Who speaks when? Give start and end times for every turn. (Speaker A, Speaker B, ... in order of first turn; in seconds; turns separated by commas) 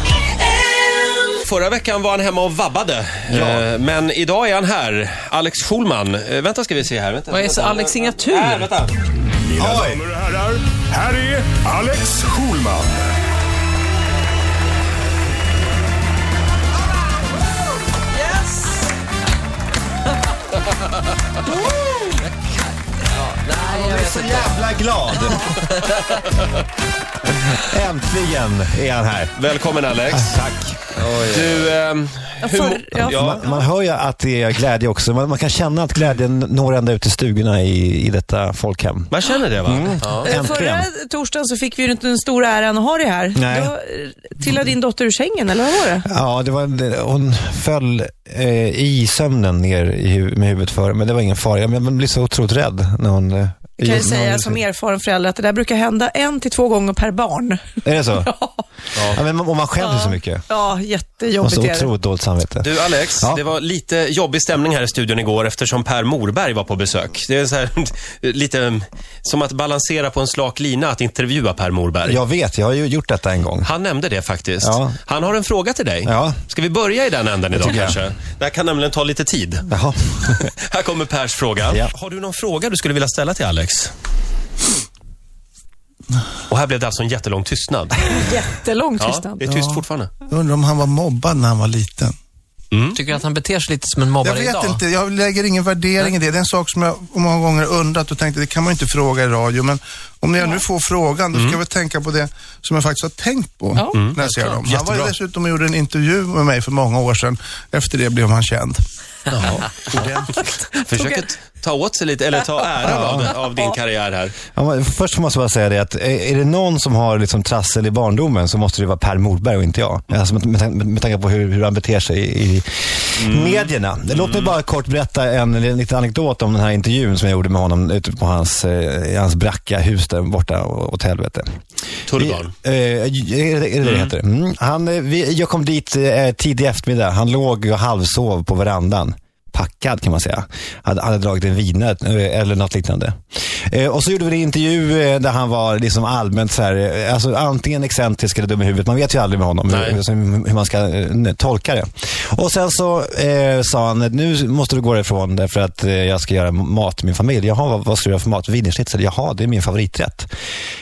Speaker A: 1.3-8.9, Speaker B: 3.3-3.6, Speaker C: 7.3-8.7, Speaker D: 9.4-13.1, Speaker B: 9.6-10.1, Speaker C: 18.2-18.9, Speaker B: 21.7-22.1, Speaker C: 23.0-24.6, Speaker B: 23.6-25.6, Speaker C: 25.1-26.1, Speaker B: 27.4-29.3, Speaker A: 29.3-30.4, Speaker B: 30.1-30.9, Speaker C: 31.0-31.7, Speaker A: 31.1-33.4, Speaker E: 32.4-33.6, Speaker B: 32.9-39.1, Speaker A: 39.1-40.3, Speaker B: 39.6-40.9, Speaker E: 40.2-46.1, Speaker B: 43.3-43.7, Speaker B: 46.0-54.6, Speaker E: 53.8-57.6, Speaker B: 57.8-58.3, Speaker E: 58.2-58.6, Speaker A: 58.9-59.2, Speaker B: 59.1-60.5, Speaker E: 59.8-61.9, Speaker B: 61.4-63.4, Speaker A: 62.6-72.2, Speaker B: 72.0-73.7, Speaker A: 73.6-79.7, Speaker B: 74.6-75.0, Speaker B: 76.0-76.4, Speaker B: 77.5-78.0, Speaker B: 79.7-80.5, Speaker A: 80.2-83.9, Speaker A: 86.5-88.1, Speaker E: 88.0-89.6, Speaker A: 89.0-90.1, Speaker F: 89.5-89.7, Speaker F: 90.3-92.1, Speaker A: 92.7-93.0, Speaker C: 92.9-94.8, Speaker F: 94.2-108.8, Speaker E: 103.8-104.6, Speaker A: 103.9-105.1, Speaker A: 109.3-114.3, Speaker F: 109.9-110.3, Speaker B: 112.8-113.3, Speaker B: 114.5-131.5, Speaker A: 123.2-124.5, Speaker A: 132.1-132.5, Speaker B: 132.1-160.3, Speaker A: 133.8-134.1, Speaker A: 149.7-150.0